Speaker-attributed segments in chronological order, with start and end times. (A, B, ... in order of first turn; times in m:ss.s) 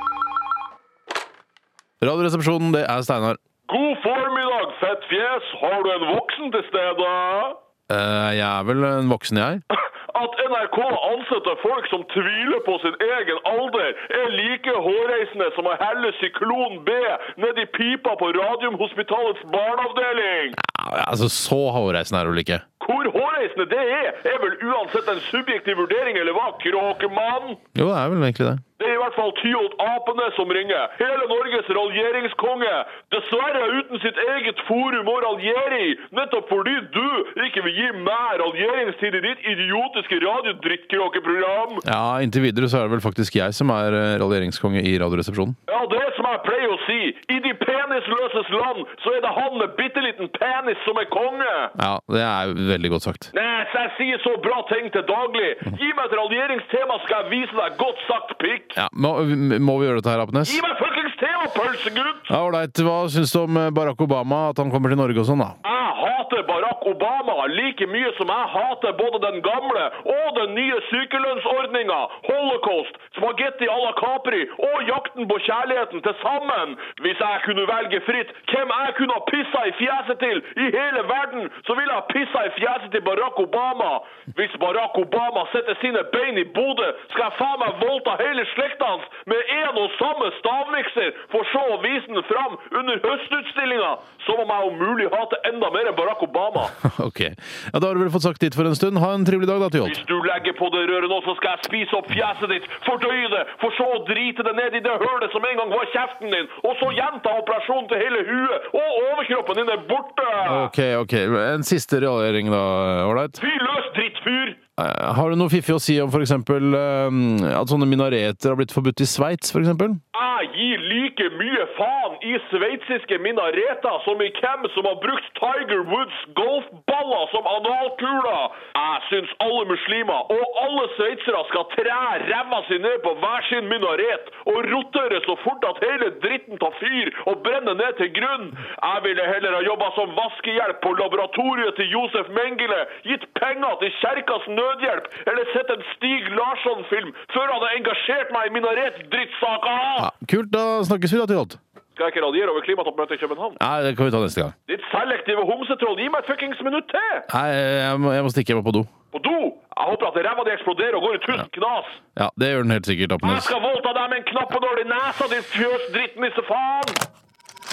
0:02.0-0:03.4 A
0:03.7-0:07.6 B
0:07.9-0:09.6 A
0:09.7-0:20.6 B
0:20.6-0:22.6 A
0:22.8-0:27.6 B
0:27.8-0:28.6 A
0:28.8-0:41.8 B
0:41.8-0:45.6 A
0:45.7-0:51.7 B
0:51.8-0:53.3 A
0:53.3-0:58.8 B
0:58.8-1:00.6 A
1:00.4-1:02.3 B
1:02.3-1:05.6 A
1:05.6-1:36.7 B
1:36.8-1:40.0 A
1:39.8-1:50.7 B
1:50.4-1:53.4 A
1:53.4-1:54.6 B
1:54.8-2:00.0 A
2:00.1-2:30.1 B
2:30.0-2:31.6 A
2:32.0-2:33.6 B
2:33.6-2:34.5 A
2:34.7-2:37.3 B
2:37.3-2:38.9 A
2:39.1-2:42.0 B
2:42.2-2:43.5 A
2:43.2-2:47.0 B